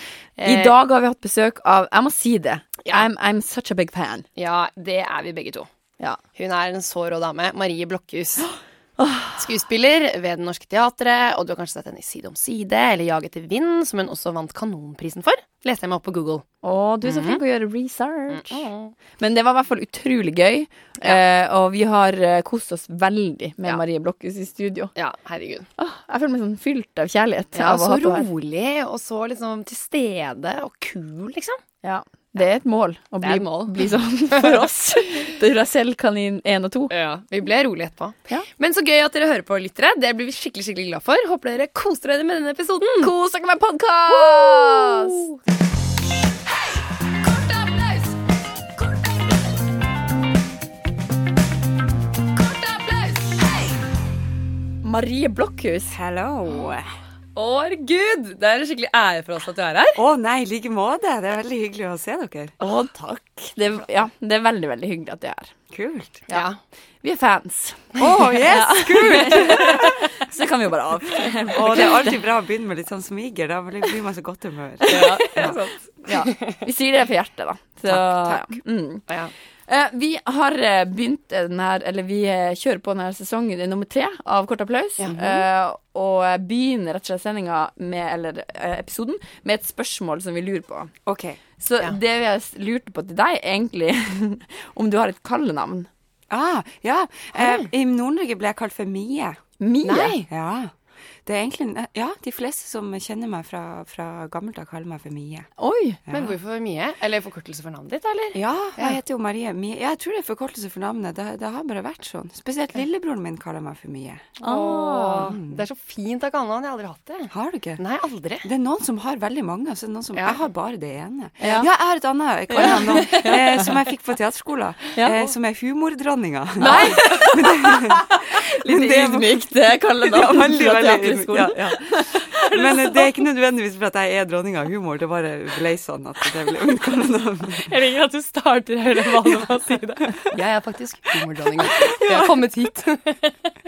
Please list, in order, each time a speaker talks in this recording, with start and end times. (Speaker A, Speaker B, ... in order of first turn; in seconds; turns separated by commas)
Speaker A: 0.4-0.7, Speaker B: 0.4-4.2, Speaker A: 4.3-5.7, Speaker A: 6.3-8.5, Speaker B: 9.0-9.3, Speaker A: 9.3-16.4, Speaker B: 16.6-18.6, Speaker A: 17.0-17.4, Speaker A: 18.3-18.9, Speaker B: 19.2-24.9, Speaker A: 24.9-25.7, Speaker B: 25.8-28.2, Speaker A: 27.5-31.6, Speaker B: 31.8-36.9, Speaker A: 33.2-34.6, Speaker A: 36.9-43.1, Speaker B: 43.0-45.3, Speaker A: 44.1-45.4, Speaker A: 47.2-48.1, Speaker A: 52.4-53.6, Speaker B: 54.8-55.9, Speaker C: 55.9-56.9, Speaker A: 57.4-60.0, Speaker C: 59.9-62.5, Speaker B: 62.6-65.5, Speaker C: 65.7-66.2, Speaker A: 66.3-66.6, Speaker B: 67.0-72.2, Speaker C: 68.0-70.0, Speaker C: 71.5-75.6, Speaker B: 74.9-79.0, Speaker A: 74.9-75.6, Speaker C: 77.9-78.6, Speaker B: 79.7-90.9, Speaker A: 85.0-85.4, Speaker C: 91.0-91.4, Speaker B: 91.6-95.9, Speaker C: 96.3-99.4, Speaker A: 97.3-97.7, Speaker B: 99.6-100.2, Speaker A: 99.8-100.3, Speaker C: 100.3-100.7, Speaker C: 101.2-105.5, Speaker B: 105.6-106.0, Speaker C: 106.1-106.3, Speaker A: 106.1-109.0, Speaker C: 108.3-114.3, Speaker B: 114.4-115.3, Speaker A: 114.4-118.5, Speaker C: 115.2-115.6, Speaker C: 117.3-117.8, Speaker C: 118.4-129.5, Speaker B: 121.4-121.7, Speaker B: 122.5-123.7, Speaker A: 122.6-123.4, Speaker B: 125.0-125.2, Speaker B: 126.6-132.5, Speaker A: 126.6-127.2, Speaker C: 130.0-137.7, Speaker A: 137.6-143.5, Speaker C: 141.6-142.4